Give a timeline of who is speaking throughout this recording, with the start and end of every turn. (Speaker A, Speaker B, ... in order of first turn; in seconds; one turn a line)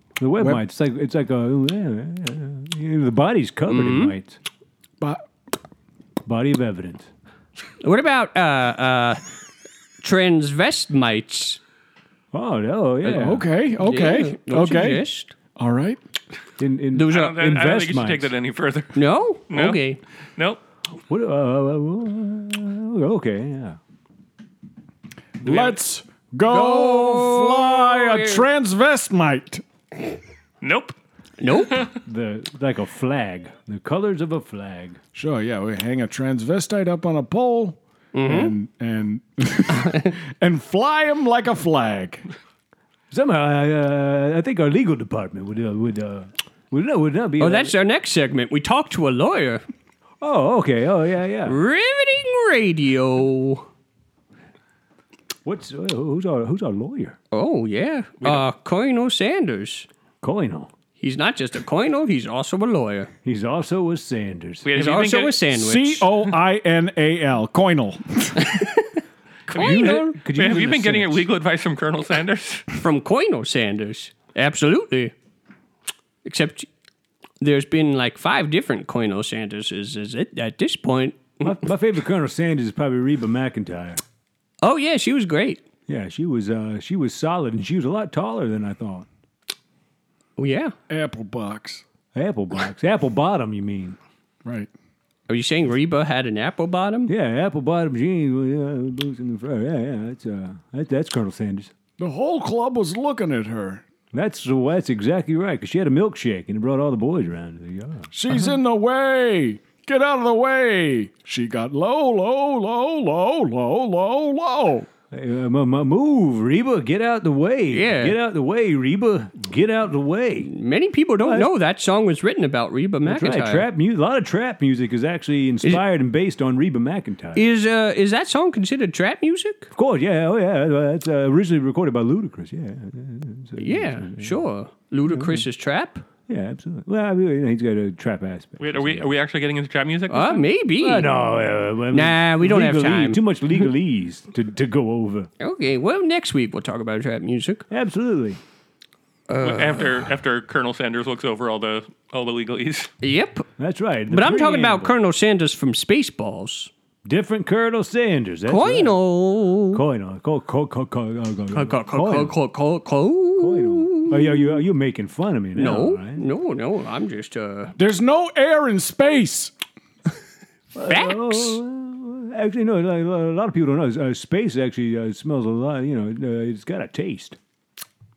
Speaker A: 0.2-4.4
Speaker B: 3.7-4.1
Speaker A: 6.2-7.1
Speaker B: 7.8-9.2
Speaker B: 10.0-11.6
Speaker A: 12.3-13.4
Speaker C: 13.0-16.0
Speaker B: 13.8-15.3
Speaker A: 16.6-18.3
Speaker B: 16.9-17.3
Speaker D: 17.0-19.8
Speaker B: 18.9-20.0
Speaker A: 21.1-23.8
Speaker C: 25.4-29.6
Speaker D: 25.4-25.8
Speaker B: 26.5-28.4
Speaker D: 30.6-30.9
Speaker B: 31.4-31.9
Speaker A: 32.0-35.0
Speaker C: 35.1-42.2
Speaker B: 38.1-38.5
Speaker A: 43.1-47.7
Speaker B: 47.4-49.6
Speaker A: 50.2-51.6
Speaker B: 51.5-53.6
Speaker A: 55.4-57.2
Speaker B: 57.3-59.9
Speaker A: 60.2-60.7
Speaker B: 61.0-63.1
Speaker A: 63.2-64.7
Speaker D: 64.6-65.4
Speaker B: 64.7-66.1
Speaker C: 65.5-68.5
Speaker B: 68.4-68.9
Speaker D: 69.5-72.7
Speaker B: 69.5-70.2
Speaker A: 69.5-71.3
Speaker B: 72.7-75.1
Speaker B: 76.2-76.7
Speaker B: 77.4-81.6
Speaker A: 81.4-84.0
Speaker B: 84.6-85.6
Speaker A: 85.9-89.1
Speaker B: 90.4-90.7
Speaker C: 90.9-91.8
Speaker A: 92.1-94.0
Speaker C: 94.4-94.7
Speaker B: 95.3-97.1
Speaker A: 97.1-101.7
Speaker C: 102.0-103.8
Speaker A: 104.1-108.1
Speaker C: 108.1-114.9
Speaker A: 115.1-120.5
Speaker B: 117.7-118.1
Speaker B: 120.4-123.7
Speaker A: 121.2-121.5
Speaker A: 123.0-127.4
Speaker B: 127.3-129.7
Speaker A: 129.7-134.4
Speaker B: 133.6-136.1
Speaker A: 135.1-135.4
Speaker A: 136.3-139.1
Speaker D: 138.6-140.5
Speaker B: 140.1-141.1
Speaker A: 140.8-145.3
Speaker B: 141.9-143.2
Speaker B: 145.4-147.6
Speaker A: 147.7-148.4
Speaker B: 149.3-150.0
Speaker D: 149.4-152.9
Speaker B: 153.0-153.5
Speaker A: 153.6-154.9
Speaker B: 154.1-156.7
Speaker A: 157.0-159.0
Speaker B: 158.5-159.8
Speaker A: 159.7-162.3
Speaker B: 161.5-164.5
Speaker A: 163.4-166.2
Speaker B: 165.6-167.8
Speaker C: 167.8-169.5
Speaker A: 170.7-177.4
Speaker B: 170.9-171.6